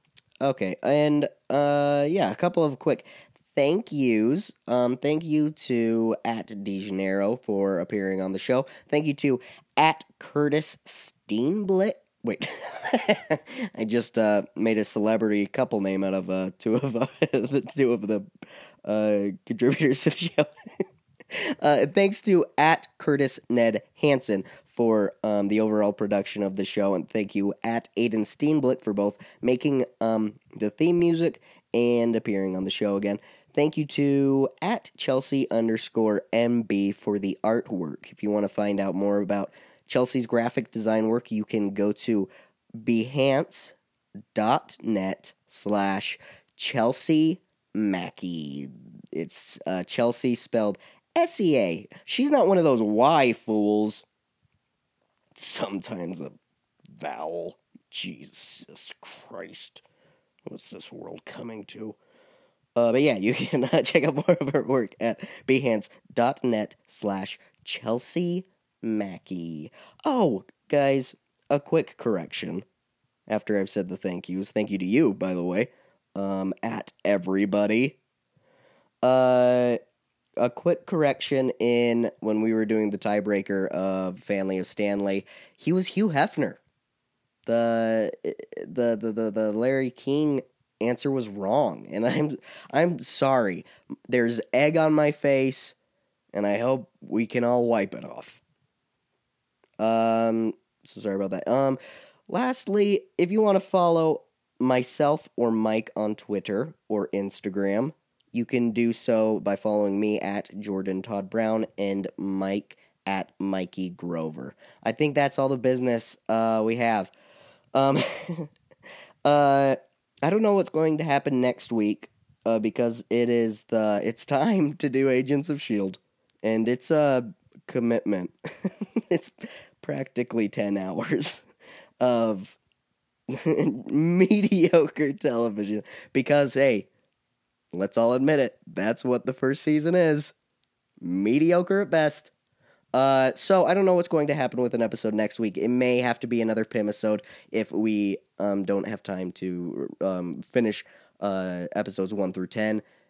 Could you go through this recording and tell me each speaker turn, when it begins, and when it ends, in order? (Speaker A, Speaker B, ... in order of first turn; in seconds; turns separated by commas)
Speaker A: 0.4-18.3, Speaker A: 18.9-20.5, Speaker A: 21.3-43.8, Speaker A: 44.4-54.0, Speaker A: 55.4-56.3, Speaker A: 57.0-59.8, Speaker A: 60.5-62.0, Speaker A: 62.8-72.7, Speaker A: 73.3-78.0, Speaker A: 79.0-79.8, Speaker A: 80.4-86.6, Speaker A: 87.5-95.8, Speaker A: 96.3-98.4, Speaker A: 99.8-117.1, Speaker A: 117.8-118.5, Speaker A: 119.2-131.4, Speaker A: 132.0-132.6, Speaker A: 133.3-136.9, Speaker A: 137.7-140.3, Speaker A: 141.0-142.3, Speaker A: 142.9-152.8